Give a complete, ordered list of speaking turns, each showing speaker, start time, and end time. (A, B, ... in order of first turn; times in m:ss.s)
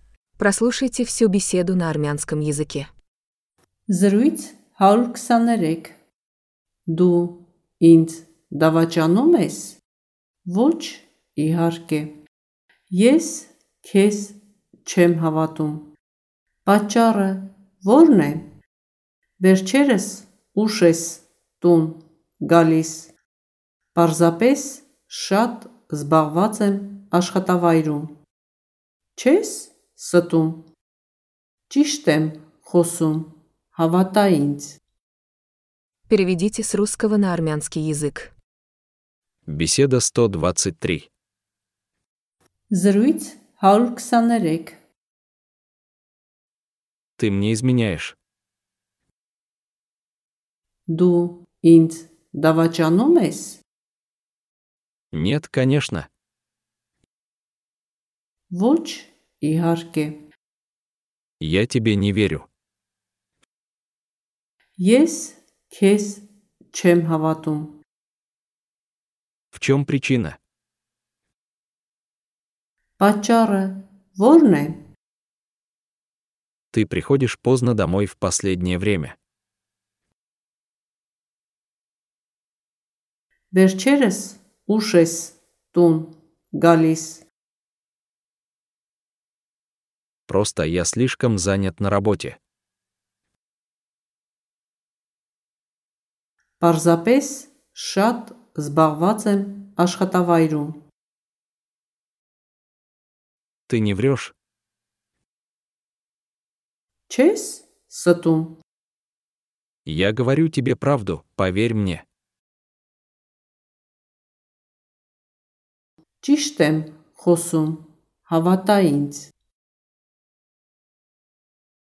0:00.4-0:02.9 A
0:03.9-0:06.0 B
0:06.9-0:09.8 B
0:10.4-0:12.2 B
0:12.9-0:15.9 B
0:16.6-0:18.4 B
0:19.4-0:23.1 B
0:23.9-0:28.1 B
0:29.2-0:30.7 B
0:31.7-0:34.8 B
0:36.1-0:38.3 A
0:39.5-0:41.1 C
0:42.7-0:44.8 B
0:47.2-0:48.2 C
0:50.9-0:53.6 B
0:55.1-0:56.1 C
0:58.5-1:00.2 B
1:01.4-1:02.5 C
1:04.8-1:07.8 B
1:09.5-1:10.4 C
1:13.0-1:14.8 B
1:16.7-1:19.2 C
1:23.5-1:27.2 B
1:30.3-1:32.4 C
1:36.6-1:40.8 B
1:43.7-1:44.3 C
1:47.1-1:48.6 B
1:49.8-1:52.0 C
1:56.2-1:59.3 B